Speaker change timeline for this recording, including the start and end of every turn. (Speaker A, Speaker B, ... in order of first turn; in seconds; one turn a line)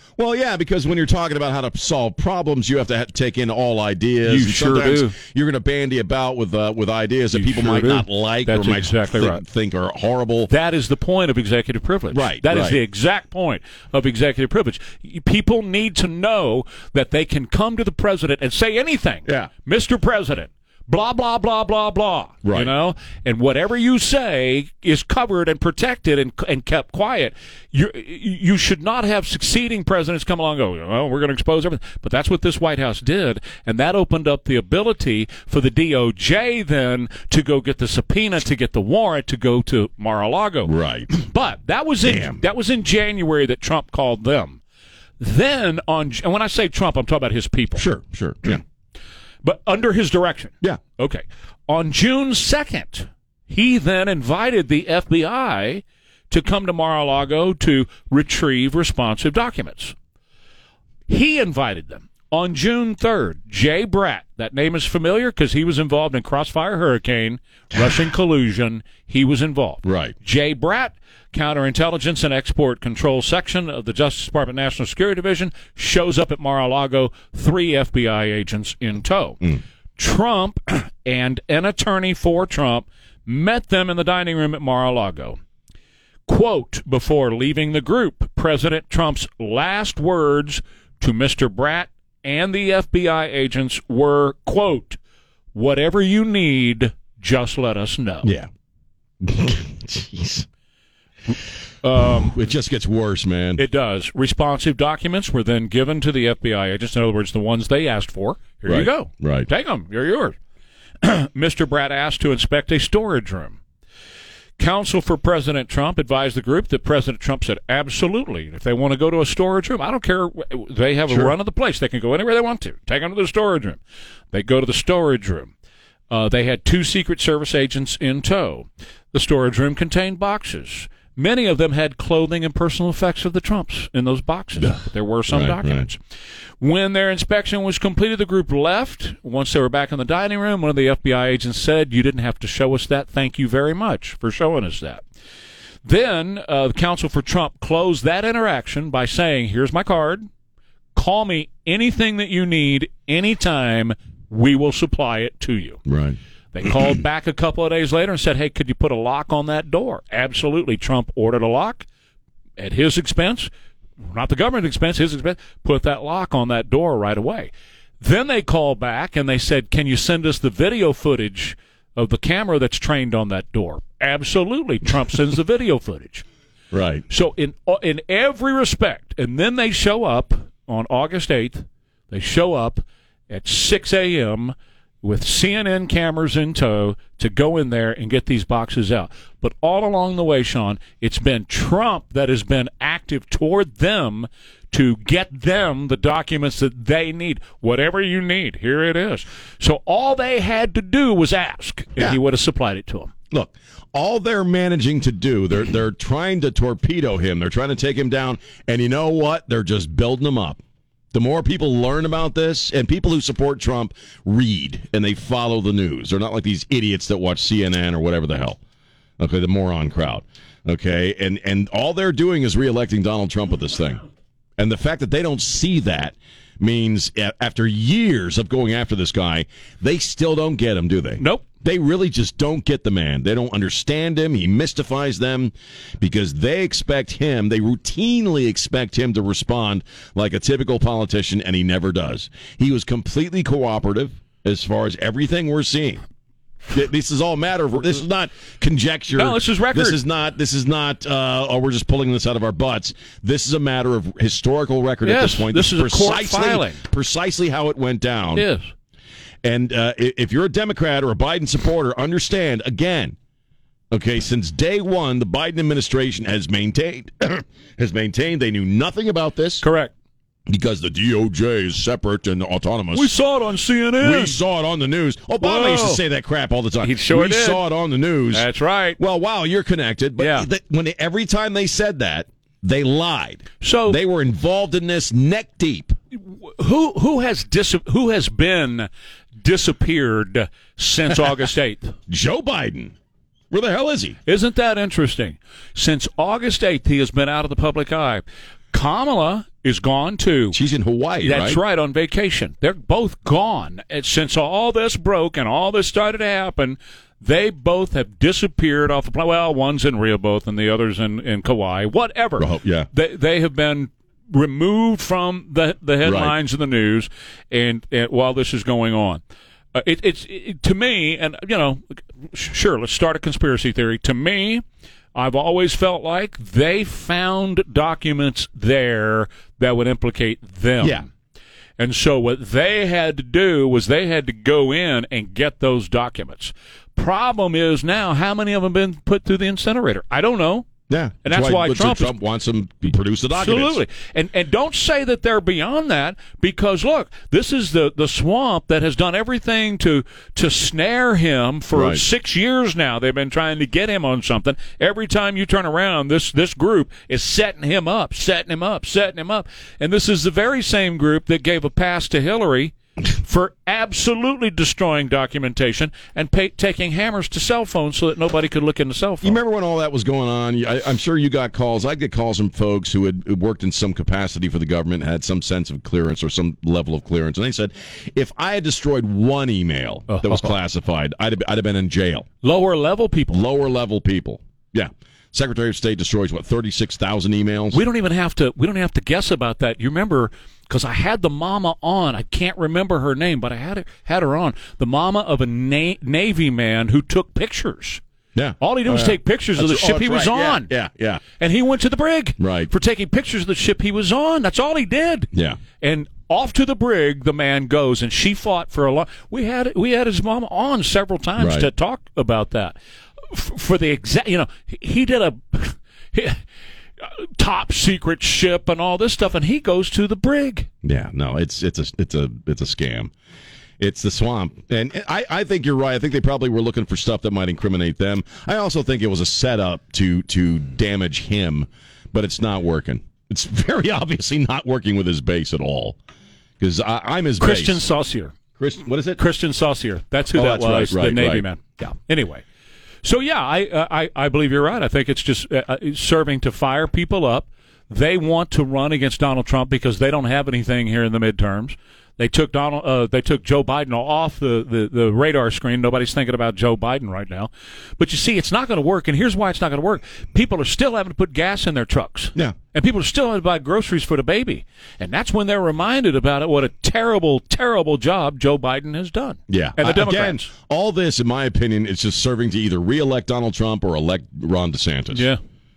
Speaker A: 0.2-10.5
Speaker B: 4.2-5.1
Speaker B: 7.3-9.4
Speaker B: 10.5-44.6
Speaker A: 12.1-12.8
Speaker A: 22.4-22.7
Speaker A: 40.6-41.1
Speaker A: 42.0-42.4
Speaker B: 45.2-47.8
Speaker A: 47.8-48.6
Speaker B: 49.4-59.9
Speaker B: 61.1-79.4
Speaker A: 69.8-70.1
Speaker B: 80.0-85.4
Speaker B: 86.3-95.0
Speaker B: 95.5-98.3
Speaker A: 98.2-98.5
Speaker A: 99.2-100.5
Speaker B: 101.8-102.3
Speaker A: 102.0-103.6
Speaker B: 103.6-110.3
Speaker A: 108.7-109.5
Speaker B: 111.0-113.6
Speaker B: 114.6-123.8
Speaker A: 121.1-121.3
Speaker B: 124.3-125.5
Speaker B: 126.1-136.0
Speaker A: 134.6-135.8
Speaker B: 136.6-145.0
Speaker B: 145.8-150.2
Speaker B: 150.9-155.8
Speaker A: 155.9-156.2
Speaker B: 156.5-161.8
Speaker B: 162.6-163.5
Speaker B: 164.1-167.5
Speaker B: 168.0-176.2
Speaker A: 176.7-177.0
Speaker B: 177.1-203.1
Speaker A: 203.3-210.6
Speaker A: 211.1-218.6
Speaker A: 219.2-224.0
Speaker A: 224.6-246.0
Speaker B: 231.2-231.5
Speaker A: 246.7-258.4
Speaker B: 249.1-250.0
Speaker B: 255.0-256.8
Speaker B: 258.3-258.6
Speaker A: 259.4-263.1
Speaker A: 263.9-269.6
Speaker B: 269.6-269.9
Speaker A: 270.5-273.1
Speaker B: 272.9-274.4
Speaker A: 274.0-278.4
Speaker B: 275.4-276.0
Speaker B: 276.8-277.6
Speaker B: 278.3-279.0
Speaker A: 279.0-286.0
Speaker B: 280.2-280.5
Speaker B: 283.6-284.0
Speaker B: 286.1-288.9
Speaker B: 289.4-291.9
Speaker A: 292.1-292.9
Speaker A: 293.5-294.2
Speaker B: 294.2-300.6
Speaker A: 300.5-301.6
Speaker B: 301.2-319.2
Speaker A: 312.4-312.9
Speaker A: 316.0-316.4
Speaker B: 319.7-324.6
Speaker B: 325.1-331.1
Speaker A: 330.8-331.1
Speaker B: 331.8-340.7
Speaker A: 340.9-343.8
Speaker B: 341.2-342.1
Speaker B: 343.3-369.4
Speaker A: 351.7-352.0
Speaker A: 369.2-382.3
Speaker B: 380.1-380.5
Speaker B: 382.4-383.4
Speaker A: 383.3-387.8
Speaker B: 387.7-398.0
Speaker A: 398.3-401.2
Speaker B: 398.6-400.7
Speaker B: 401.4-405.3
Speaker A: 402.4-402.7
Speaker A: 405.3-405.6
Speaker B: 405.8-412.8
Speaker A: 411.4-411.7
Speaker B: 413.3-416.4
Speaker B: 417.0-420.7
Speaker A: 420.8-423.1
Speaker A: 423.8-436.0
Speaker A: 436.6-437.8
Speaker B: 437.4-438.3
Speaker A: 438.6-439.2
Speaker B: 439.2-442.4
Speaker A: 440.3-441.5
Speaker B: 443.0-470.5
Speaker A: 469.5-475.3
Speaker B: 475.1-475.4